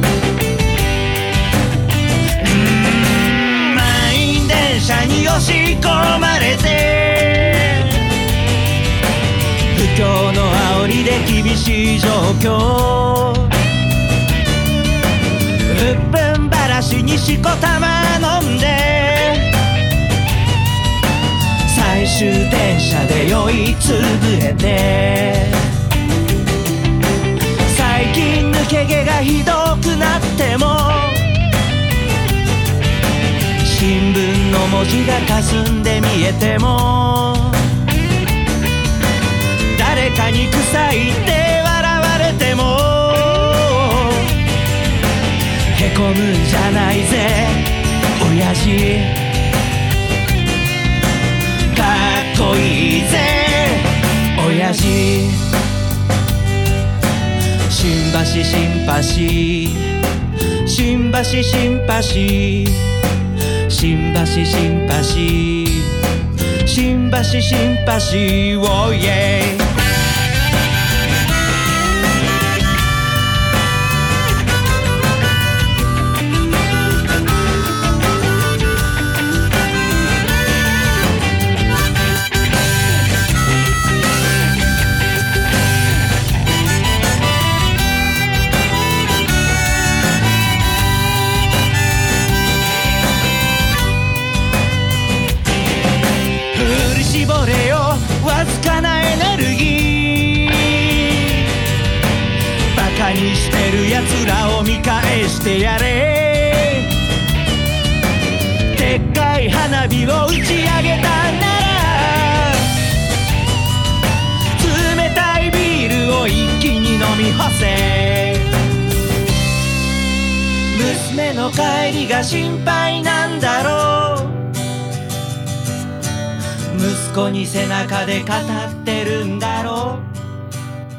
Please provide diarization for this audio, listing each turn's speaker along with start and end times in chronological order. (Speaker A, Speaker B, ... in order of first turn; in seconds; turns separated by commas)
Speaker A: 2.4-8.1, Speaker A: 9.7-13.5, Speaker A: 15.7-19.5, Speaker A: 21.6-25.7, Speaker A: 27.6-31.3, Speaker A: 33.6-37.7, Speaker A: 39.7-44.4, Speaker A: 45.7-49.2, Speaker A: 51.7-55.5, Speaker A: 57.7-60.0, Speaker A: 60.6-63.0, Speaker A: 63.7-66.0, Speaker A: 66.6-69.7, Speaker A: 96.5-101.5, Speaker A: 102.7-106.9, Speaker A: 108.7-112.7, Speaker A: 114.6-118.6, Speaker A: 120.7-124.5, Speaker A: 126.7-130.1